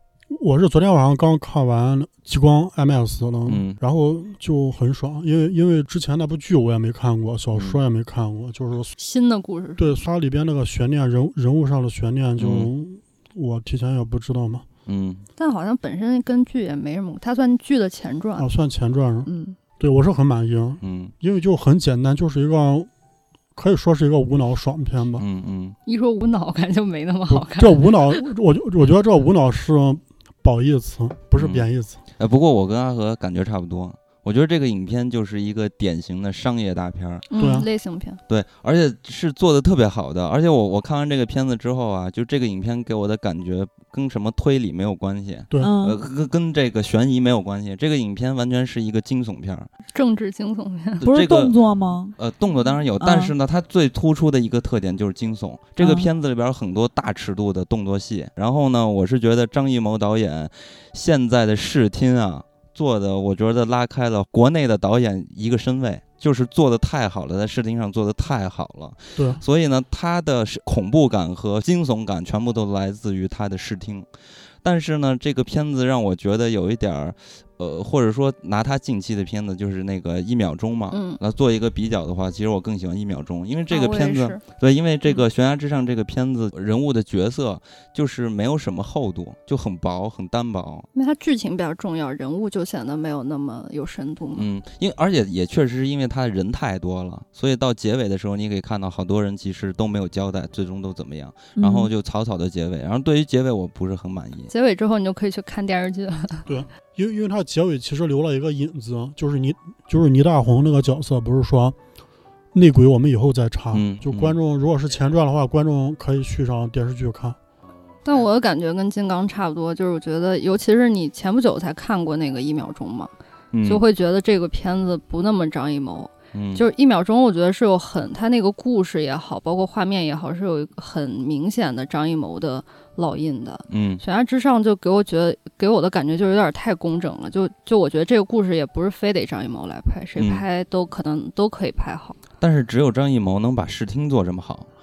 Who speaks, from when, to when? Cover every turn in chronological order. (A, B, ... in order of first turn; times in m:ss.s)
0:00.3-0:08.9 A
0:03.4-0:03.8 B
0:07.5-0:07.8 B
0:09.0-0:10.0 C
0:09.8-0:14.6 A
0:12.4-0:12.7 B
0:14.8-0:15.2 B
0:15.4-0:18.5 C
0:18.4-0:19.3 A
0:19.2-0:19.6 C
0:19.8-0:22.9 A
0:20.8-0:21.1 B
0:23.6-0:25.2 A
0:25.2-0:25.8 B
0:25.8-0:28.1 C
0:27.3-0:32.0 A
0:31.3-0:31.6 B
0:32.2-0:37.2 B
0:37.3-0:38.2 C
0:37.4-0:37.7 A
0:38.3-0:49.7 B
0:45.6-0:46.0 D
0:49.9-0:51.0 C
0:51.0-0:51.5 B
0:51.0-0:52.2 D
0:52.2-1:14.1 B
0:53.0-0:53.3 D
0:55.8-0:56.1 D
1:09.2-1:09.4 A
1:14.6-1:30.9 B
1:20.9-1:21.2 C
1:23.7-1:24.4 C
1:30.9-1:34.5 C
1:34.3-1:44.5 B
1:41.6-1:41.9 D
1:44.5-1:46.4 C
1:46.4-1:51.8 A
1:52.5-1:57.4 A
1:53.7-1:54.4 B
1:58.0-2:03.1 C
2:03.5-2:03.8 B
2:03.6-2:22.2 C
2:06.3-2:06.6 B
2:13.7-2:14.0 B
2:20.2-2:20.4 B
2:22.4-2:24.7 B